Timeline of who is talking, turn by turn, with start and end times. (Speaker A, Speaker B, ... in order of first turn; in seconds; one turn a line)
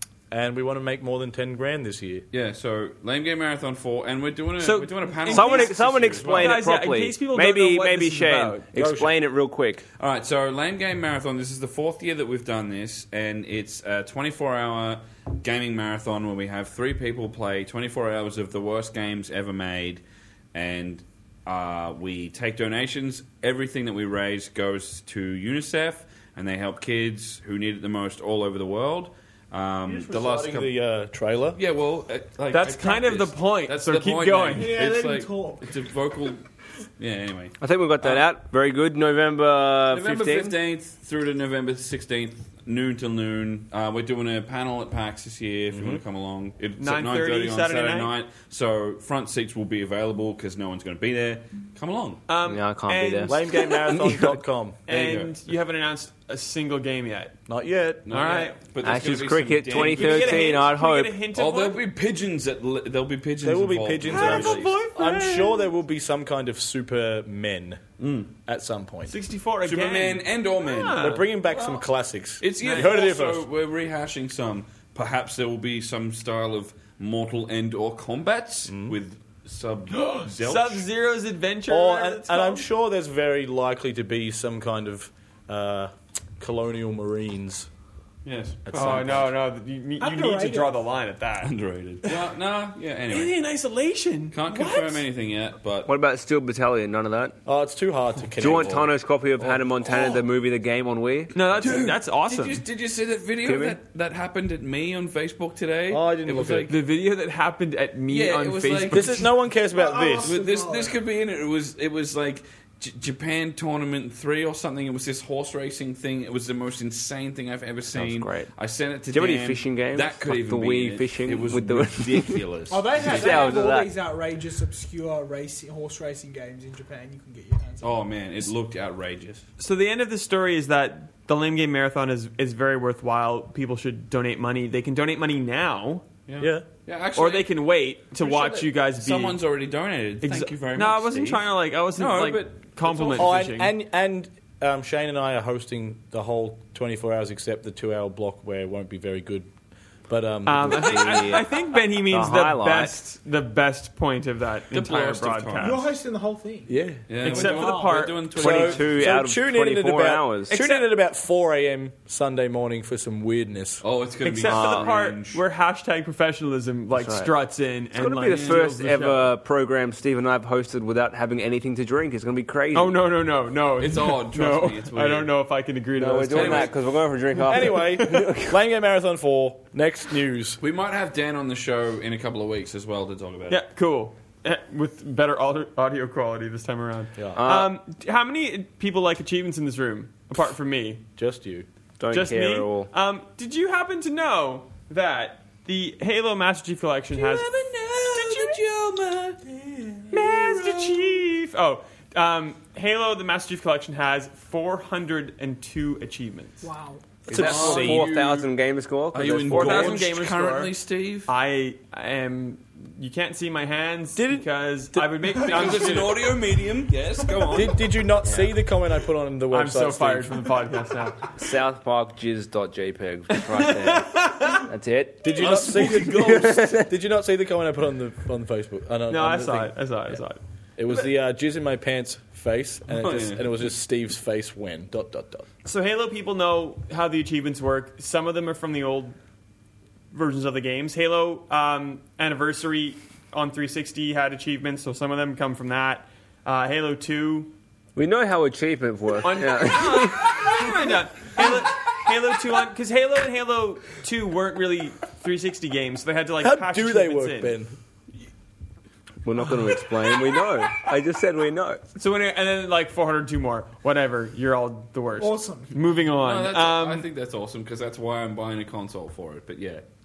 Speaker A: 0.3-2.2
Speaker B: 2.3-6.6
Speaker C: 4.6-8.7
Speaker D: 5.3-9.8
Speaker A: 8.7-9.1
Speaker B: 10.0-20.0
Speaker B: 20.5-30.7
Speaker A: 29.8-31.6
Speaker B: 31.5-36.4
Speaker C: 32.5-34.8
Speaker E: 34.5-35.7
Speaker B: 37.0-38.3
Speaker D: 37.6-40.6
Speaker B: 39.9-52.2
Speaker A: 45.7-46.0
Speaker C: 46.8-48.1
Speaker C: 52.3-57.3
Speaker D: 52.4-53.4
Speaker A: 53.2-54.8
Speaker B: 54.9-55.4
Speaker A: 57.5-58.1
Speaker B: 58.0-60.7
Speaker C: 58.1-58.7
Speaker D: 58.8-61.1
Speaker C: 59.6-61.8
Speaker B: 61.3-64.8
Speaker A: 63.4-67.8
Speaker C: 64.0-65.7
Speaker B: 68.0-68.3
Speaker A: 68.4-69.1
Speaker C: 69.1-71.2
Speaker B: 69.6-71.8
Speaker A: 71.0-73.5
Speaker B: 72.4-80.8
Speaker C: 72.6-73.0
Speaker A: 78.7-78.9
Speaker C: 80.2-82.7
Speaker A: 81.7-87.7
Speaker B: 88.2-89.2
Speaker A: 88.7-89.3
Speaker C: 88.7-92.2
Speaker E: 90.0-90.8
Speaker B: 91.4-93.4
Speaker C: 93.1-95.0
Speaker B: 94.3-95.9
Speaker D: 95.8-97.4
Speaker A: 97.5-98.9
Speaker D: 98.4-101.4
Speaker B: 98.4-100.2
Speaker C: 101.3-102.6
Speaker B: 101.6-106.8
Speaker D: 103.4-103.8
Speaker A: 105.9-106.7
Speaker C: 106.7-109.3
Speaker B: 108.1-109.2
Speaker A: 108.9-110.3
Speaker E: 109.7-111.0
Speaker B: 110.1-123.5
Speaker D: 117.9-118.5
Speaker D: 119.1-122.4
Speaker E: 122.7-128.1
Speaker D: 123.0-123.9
Speaker B: 127.8-129.4
Speaker C: 129.6-136.1
Speaker B: 136.3-137.5
Speaker A: 136.4-136.7
Speaker C: 137.1-139.4
Speaker B: 138.2-143.4
Speaker C: 140.2-143.7
Speaker A: 143.2-149.5
Speaker A: 150.1-151.2
Speaker C: 150.4-155.8
Speaker D: 150.6-153.0
Speaker B: 154.7-155.9
Speaker E: 155.6-158.0
Speaker A: 156.7-157.1
Speaker B: 157.1-159.2
Speaker C: 157.2-158.4
Speaker D: 158.3-160.6
Speaker A: 158.3-163.8
Speaker C: 160.5-160.9
Speaker B: 163.8-165.4
Speaker C: 164.2-169.3
Speaker D: 164.4-164.9
Speaker D: 166.9-167.3
Speaker D: 167.9-173.0
Speaker B: 168.3-168.6
Speaker C: 172.7-176.8
Speaker B: 173.8-175.3
Speaker D: 175.9-178.6
Speaker B: 176.3-176.8
Speaker C: 177.4-178.3
Speaker A: 177.5-180.6
Speaker B: 180.6-183.6
Speaker C: 183.5-191.0
Speaker A: 187.2-187.4
Speaker D: 187.3-187.7
Speaker A: 191.2-191.7
Speaker D: 192.0-192.9
Speaker C: 192.1-198.6
Speaker B: 197.2-199.4
Speaker E: 198.3-198.6
Speaker E: 199.4-200.5
Speaker C: 200.1-206.7
Speaker E: 206.6-207.0
Speaker A: 207.3-208.1
Speaker D: 207.3-210.0
Speaker B: 207.3-208.5
Speaker B: 209.1-211.3
Speaker C: 209.5-210.7
Speaker C: 211.3-216.3
Speaker A: 214.2-215.1
Speaker B: 215.3-217.8
Speaker A: 217.5-220.4
Speaker D: 218.2-218.5
Speaker C: 219.5-221.3
Speaker D: 221.4-226.9
Speaker C: 223.3-224.7
Speaker A: 225.2-230.1
Speaker B: 225.3-226.8
Speaker C: 229.1-231.1
Speaker A: 230.8-235.5
Speaker B: 232.9-233.7
Speaker C: 235.6-239.2
Speaker C: 240.1-247.5
Speaker D: 247.9-250.7
Speaker C: 249.2-257.6
Speaker A: 256.4-257.7
Speaker D: 259.2-261.8
Speaker C: 261.9-267.0
Speaker E: 265.2-265.7
Speaker B: 266.1-269.8